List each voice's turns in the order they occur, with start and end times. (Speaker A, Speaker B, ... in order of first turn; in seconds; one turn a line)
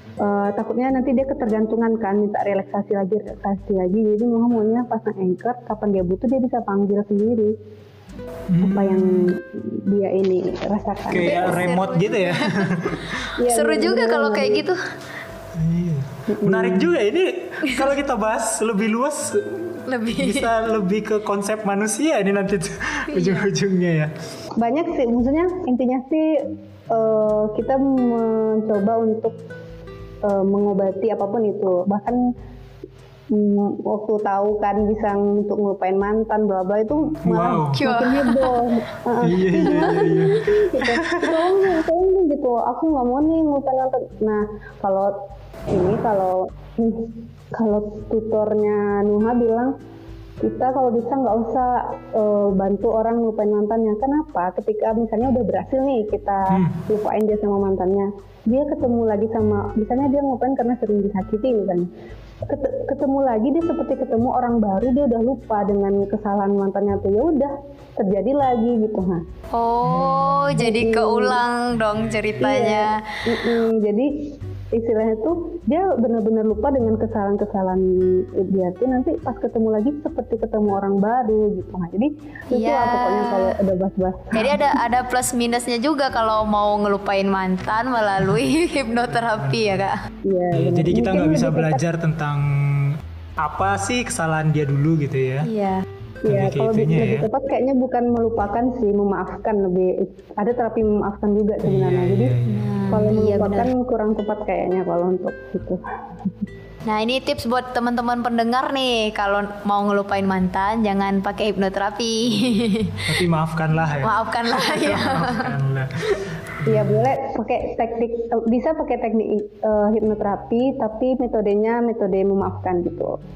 Speaker A: 0.2-7.5
Speaker B: 8.5-9.3
Speaker A: 8.6-11.7
Speaker B: 11.1-13.1
Speaker C: 11.2-14.9
Speaker A: 13.4-14.6
Speaker B: 15.6-24.1
Speaker A: 16.3-16.9
Speaker C: 19.9-20.5
Speaker C: 23.1-23.5
Speaker A: 24.6-29.4
Speaker A: 30.2-32.2
Speaker A: 33.3-45.1
Speaker B: 37.2-37.8
Speaker C: 37.8-38.6
Speaker B: 39.2-41.5
Speaker A: 45.7-49.7
Speaker A: 50.4-61.9
Speaker B: 56.5-56.8
Speaker A: 62.5-69.2
Speaker C: 69.5-73.0
Speaker B: 69.8-70.5
Speaker A: 70.6-71.4
Speaker B: 72.0-72.3
Speaker A: 72.4-84.8
Speaker C: 82.5-83.6
Speaker C: 84.3-90.0
Speaker B: 89.3-89.9
Speaker A: 90.2-91.8
Speaker B: 90.5-95.5
Speaker C: 95.4-95.8
Speaker A: 96.2-102.3
Speaker B: 96.3-97.3
Speaker B: 101.6-102.8
Speaker C: 102.5-103.7
Speaker A: 102.9-105.8
Speaker C: 106.9-113.2
Speaker B: 113.1-117.1
Speaker C: 114.0-115.5
Speaker A: 116.7-123.2